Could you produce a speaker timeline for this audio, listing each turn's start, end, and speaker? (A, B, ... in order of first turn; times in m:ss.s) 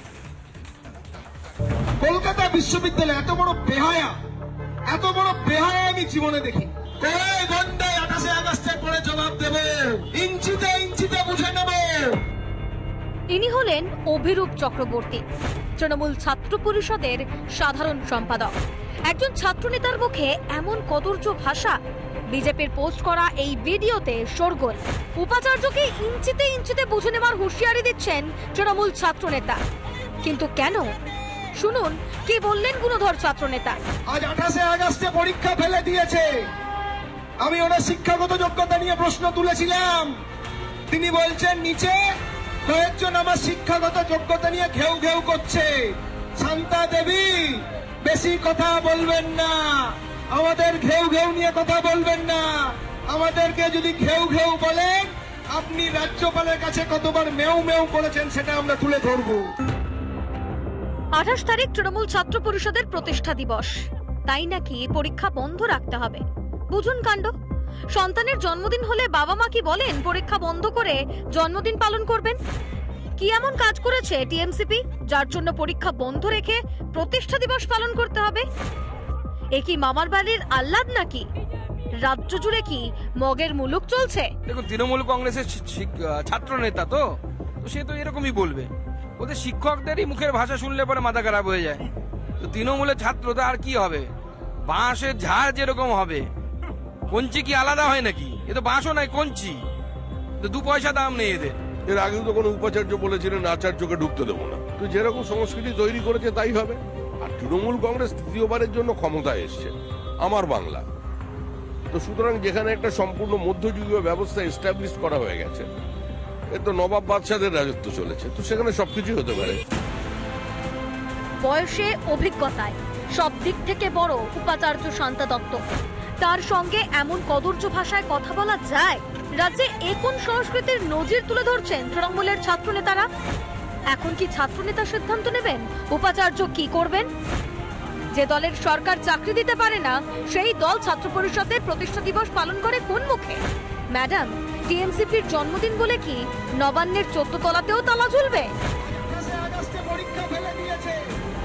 0:02.0-0:04.1 A
0:04.9-0:12.2 A
0:13.3-0:15.2 B
0:15.8-0:18.6 B
0:19.1-0:21.8 B
0:22.3-0:29.6 B
0:30.2-0:30.9 B
0:31.6-0:33.8 B
0:34.1-0:36.4 A
0:37.4-0:40.1 A
0:40.9-0:42.0 A
0:42.6-0:59.5 A
1:01.2-1:03.8 B
1:04.3-1:07.3 B
1:07.9-1:12.4 B
1:13.2-1:18.4 B
1:19.5-1:21.2 B
1:22.0-1:24.3 B
1:24.5-1:27.0 C
1:27.6-1:31.8 C
1:32.4-1:34.1 C
1:34.7-1:36.3 C
1:37.1-1:39.6 C
1:40.4-1:41.6 C
1:41.9-1:50.8 D
1:51.9-1:55.7 D
1:56.5-1:59.6 D
2:01.4-2:05.6 B
2:06.2-2:13.1 B
2:13.9-2:17.1 B
2:18.1-2:28.5 B
2:28.8-2:31.0 A